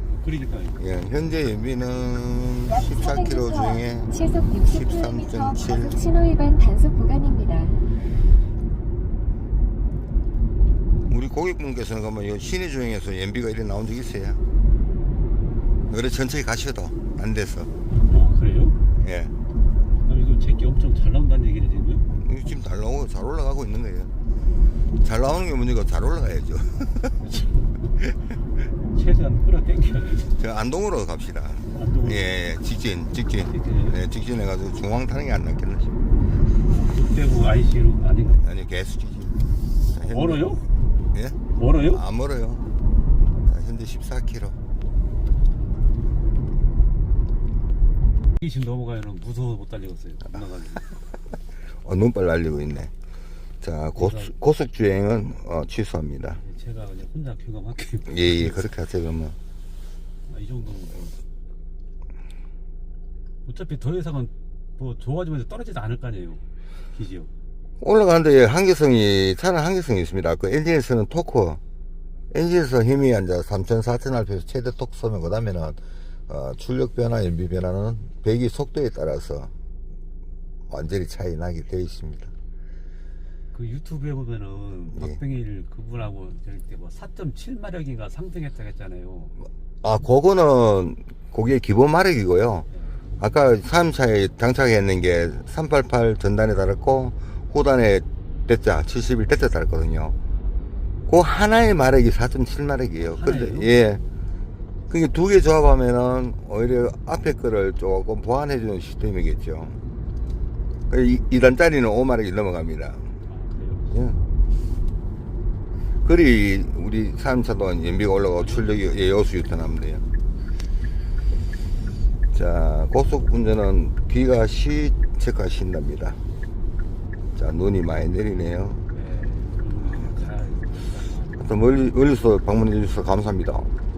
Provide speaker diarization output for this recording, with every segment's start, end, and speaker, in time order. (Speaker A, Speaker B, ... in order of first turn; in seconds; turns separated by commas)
Speaker A: 0.2-0.8, Speaker B: 0.8-6.1, Speaker C: 2.7-7.8, Speaker B: 11.1-14.4, Speaker B: 15.9-17.7, Speaker A: 18.1-18.8, Speaker B: 19.0-19.3, Speaker A: 20.1-22.0, Speaker B: 22.2-24.1, Speaker B: 25.0-27.3, Speaker A: 27.3-27.7, Speaker A: 28.9-30.3, Speaker B: 30.3-36.0, Speaker A: 31.7-32.4, Speaker A: 33.4-34.0, Speaker A: 36.8-38.4, Speaker B: 38.4-40.6, Speaker A: 40.0-40.7, Speaker B: 41.1-42.7, Speaker A: 41.5-42.0, Speaker B: 43.5-44.6, Speaker A: 48.4-50.9, Speaker B: 51.8-52.9, Speaker B: 53.6-56.4, Speaker A: 54.0-54.3, Speaker A: 56.3-58.6, Speaker B: 58.1-59.4, Speaker A: 60.3-61.2, Speaker A: 63.5-66.4, Speaker A: 66.9-67.3, Speaker B: 67.8-71.6, Speaker B: 72.3-79.5, Speaker B: 80.7-82.3, Speaker A: 83.5-89.3, Speaker B: 84.9-85.2, Speaker B: 89.8-92.7, Speaker B: 93.2-100.2, Speaker B: 101.1-104.0, Speaker A: 103.0-103.8, Speaker B: 104.9-109.8, Speaker B: 110.9-113.1, Speaker A: 113.3-114.0, Speaker B: 113.9-114.2, Speaker B: 116.0-120.0, Speaker A: 118.4-118.8, Speaker B: 122.3-126.2, Speaker B: 127.4-128.8, Speaker A: 128.9-131.5, Speaker B: 131.4-133.7